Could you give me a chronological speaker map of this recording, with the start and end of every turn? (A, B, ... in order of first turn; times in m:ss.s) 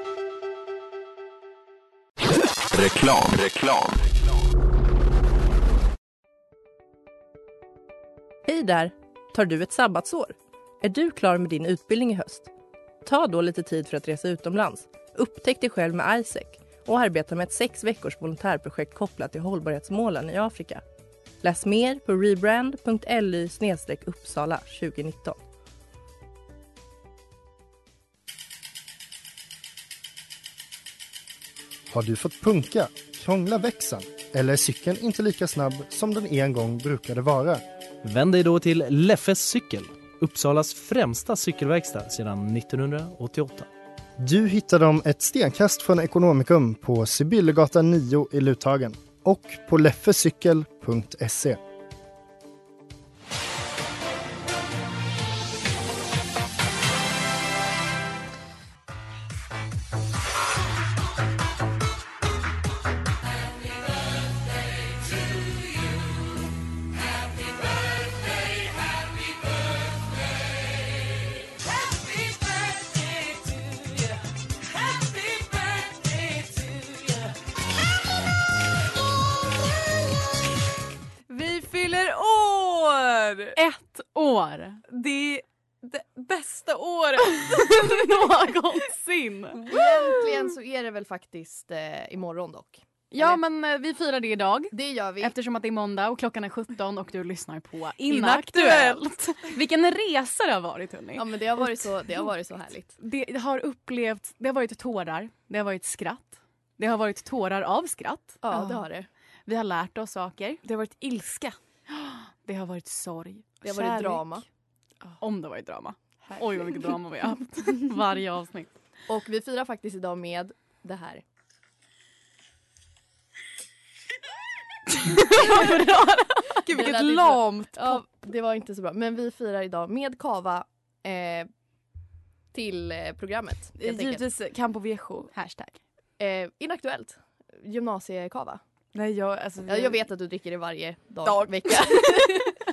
0:02.7-0:04.0 A
0:08.5-0:12.5 B
0:13.0-0:20.8 B
0:21.4-0:25.4 B
0:31.9-0:37.6 C
0:38.0-0:43.7 A
0:44.2-0:51.6 C
1:15.4-1:15.9 D
1:21.3-1:23.6 D
1:23.6-1:24.8 E
1:24.9-1:27.9 D
1:27.5-1:29.7 E
1:29.7-1:33.4 F
1:29.7-1:30.3 D
1:33.1-1:41.3 E
1:34.7-1:35.3 F
1:38.0-1:39.1 D
1:41.2-1:42.9 F
1:43.0-1:48.4 E
1:48.4-1:49.1 F
1:48.5-1:48.8 D
1:49.5-1:50.6 E
1:50.6-1:51.6 D
1:51.9-1:54.0 E
1:53.6-1:54.4 F
1:53.7-1:54.2 D
1:55.2-1:58.7 E
1:59.1-2:01.2 F
2:05.2-2:06.6 E
2:06.6-2:08.0 D
2:06.7-2:11.5 F
2:12.5-2:14.2 F
2:13.8-2:15.3 D
2:15.3-2:15.8 E
2:16.2-2:18.6 F
2:18.9-2:20.1 D
2:19.7-2:22.5 F
2:21.2-2:22.3 D